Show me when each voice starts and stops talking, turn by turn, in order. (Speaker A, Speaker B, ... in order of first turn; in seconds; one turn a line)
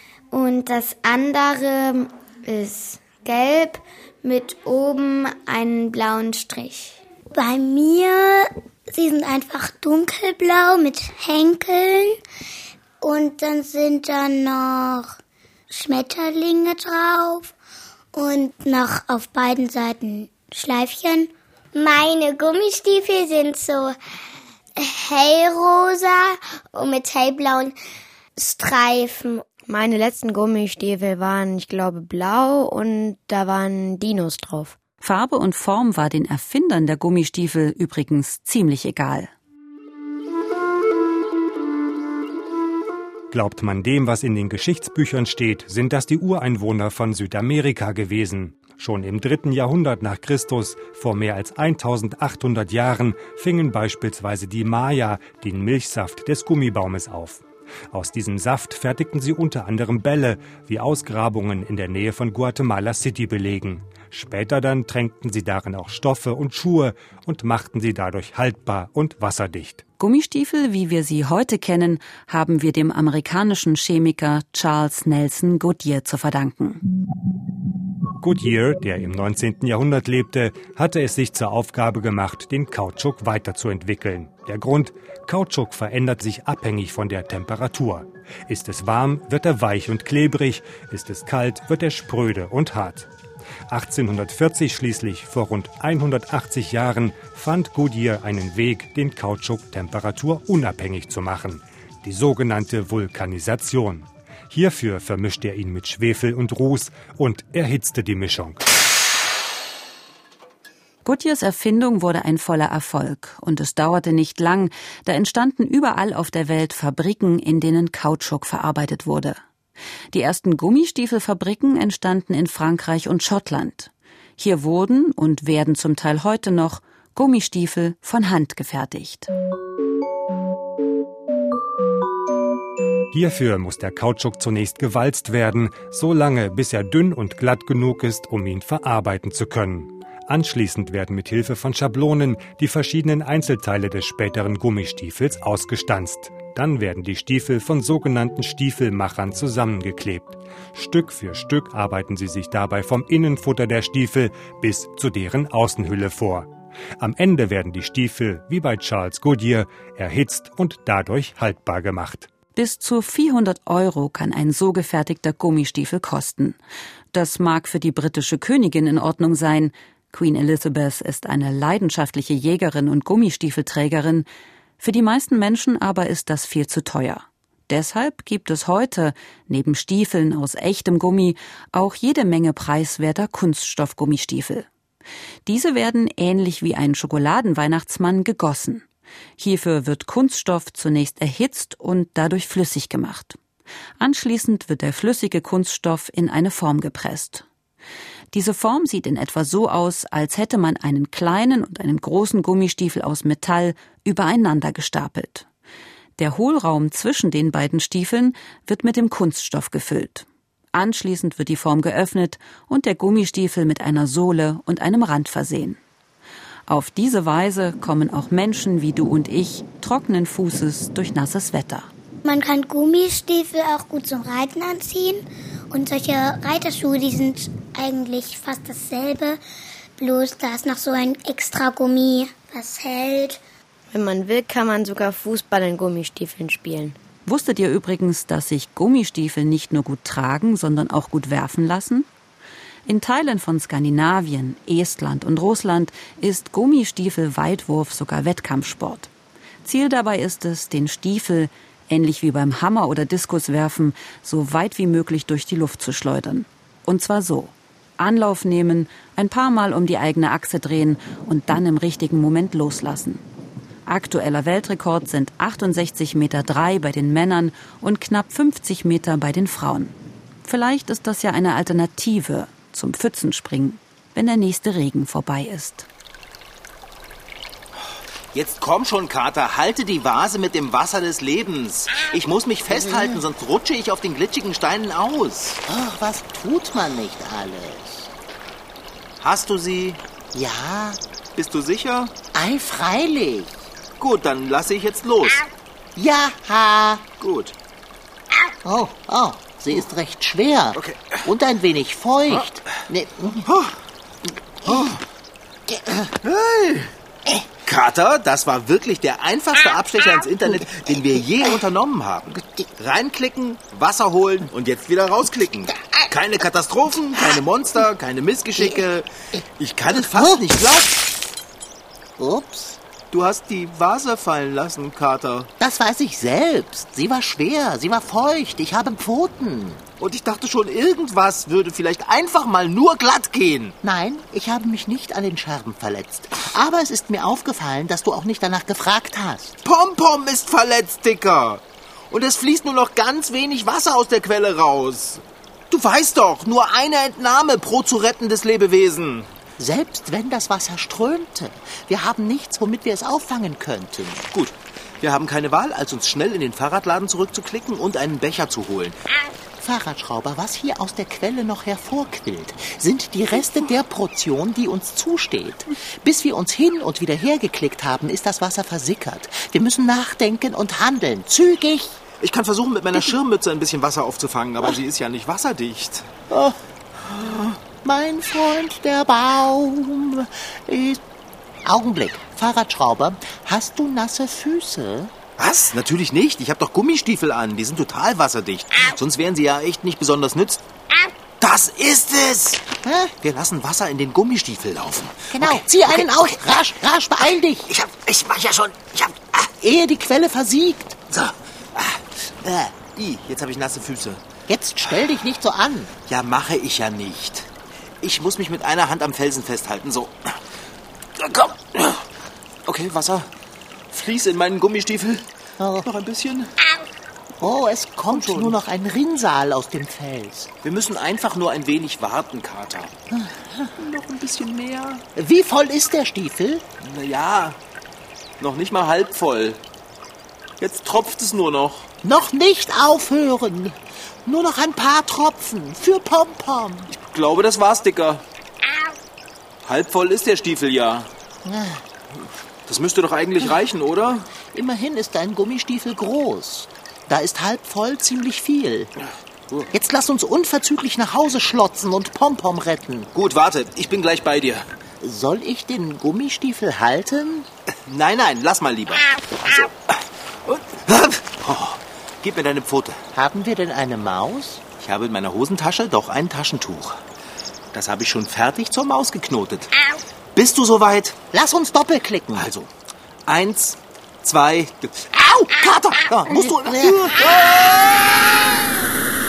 Speaker A: 0.3-7.0
Speaker B: 7.3-12.2
Speaker B: 13.0-15.1
Speaker B: 15.7-17.5
Speaker B: 18.1-21.3
Speaker A: 21.8-24.0
Speaker A: 24.8-27.8
Speaker A: 28.4-29.4
Speaker C: 29.7-34.8
Speaker D: 35.0-39.3
Speaker E: 43.3-69.8
Speaker D: 70.0-76.8
Speaker E: 78.2-93.1
Speaker E: 93.7-108.6
Speaker D: 111.0-119.4
Speaker D: 120.1-129.3
Speaker E: 133.1-162.3
Speaker D: 162.6-166.6
Speaker D: 167.1-174.3
Speaker D: 174.8-184.7
Speaker D: 185.5-188.8
Speaker D: 189.4-193.4
Speaker D: 194.0-197.4
Speaker D: 198.3-205.5
Speaker D: 206.2-215.8
Speaker D: 216.7-221.9
Speaker B: 222.2-229.4
Speaker B: 230.0-233.4
Speaker C: 233.9-237.0
Speaker D: 237.3-242.1
Speaker D: 242.9-249.1
Speaker D: 249.6-263.2
Speaker D: 263.9-275.9
Speaker F: 278.3-285.6
Speaker G: 282.7-283.2
Speaker G: 285.7-288.1
Speaker F: 289.2-290.0
Speaker G: 290.3-291.0
Speaker F: 291.4-292.1
Speaker G: 292.3-293.7
Speaker F: 294.0-295.5
Speaker G: 296.0-297.1
Speaker F: 297.2-297.6
Speaker G: 298.6-303.5
Speaker F: 300.7-301.3
Speaker F: 303.5-303.8
Speaker G: 304.6-305.0
Speaker F: 304.6-305.0
Speaker G: 305.7-306.1
Speaker F: 306.2-306.9
Speaker F: 307.6-319.1
Speaker G: 312.4-312.7
Speaker G: 318.6-320.4
Speaker F: 319.6-321.1
Speaker G: 322.2-322.8
Speaker F: 323.1-325.5
Speaker G: 325.6-329.8
Speaker F: 330.0-333.8
Speaker G: 333.8-339.6
Speaker F: 339.6-349.3
Speaker G: 349.6-354.3
Speaker F: 354.3-359.0
Speaker G: 359.6-372.0
Speaker F: 372.2-376.1
Speaker G: 376.3-376.6
Speaker F: 377.0-377.6
Speaker G: 377.8-381.0
Speaker G: 381.6-385.1
Speaker F: 385.4-390.6
Speaker F: 391.4-392.6
Speaker G: 392.8-393.1
Speaker F: 393.2-396.4
Speaker G: 395.3-397.7
Speaker F: 397.7-399.5
Speaker G: 399.6-401.0
Speaker F: 401.1-404.2
Speaker G: 404.5-405.9
Speaker F: 406.1-407.5
Speaker F: 408.0-410.4
Speaker F: 411.2-412.1
Speaker F: 412.7-413.3
Speaker F: 413.9-415.3
Speaker G: 415.6-415.9
Speaker F: 415.8-416.5
Speaker G: 417.4-420.5
Speaker F: 418.1-418.6
Speaker F: 420.6-422.9
Speaker G: 423.1-423.7
Speaker F: 423.8-425.0
Speaker G: 425.1-426.6
Speaker F: 426.8-427.6
Speaker F: 428.4-429.6
Speaker F: 430.6-431.9
Speaker G: 432.0-436.9
Speaker F: 436.9-438.2
Speaker F: 439.6-441.1
Speaker G: 441.4-441.9
Speaker F: 442.7-444.3
Speaker G: 444.4-448.9
Speaker G: 449.5-453.1
Speaker F: 453.1-454.7
Speaker G: 455.0-457.5
Speaker F: 457.9-463.0
Speaker G: 463.1-464.6
Speaker F: 464.8-467.0
Speaker F: 467.7-469.7
Speaker F: 470.4-471.2
Speaker G: 471.3-472.5
Speaker F: 472.4-472.7
Speaker F: 473.3-478.4
Speaker G: 476.1-477.1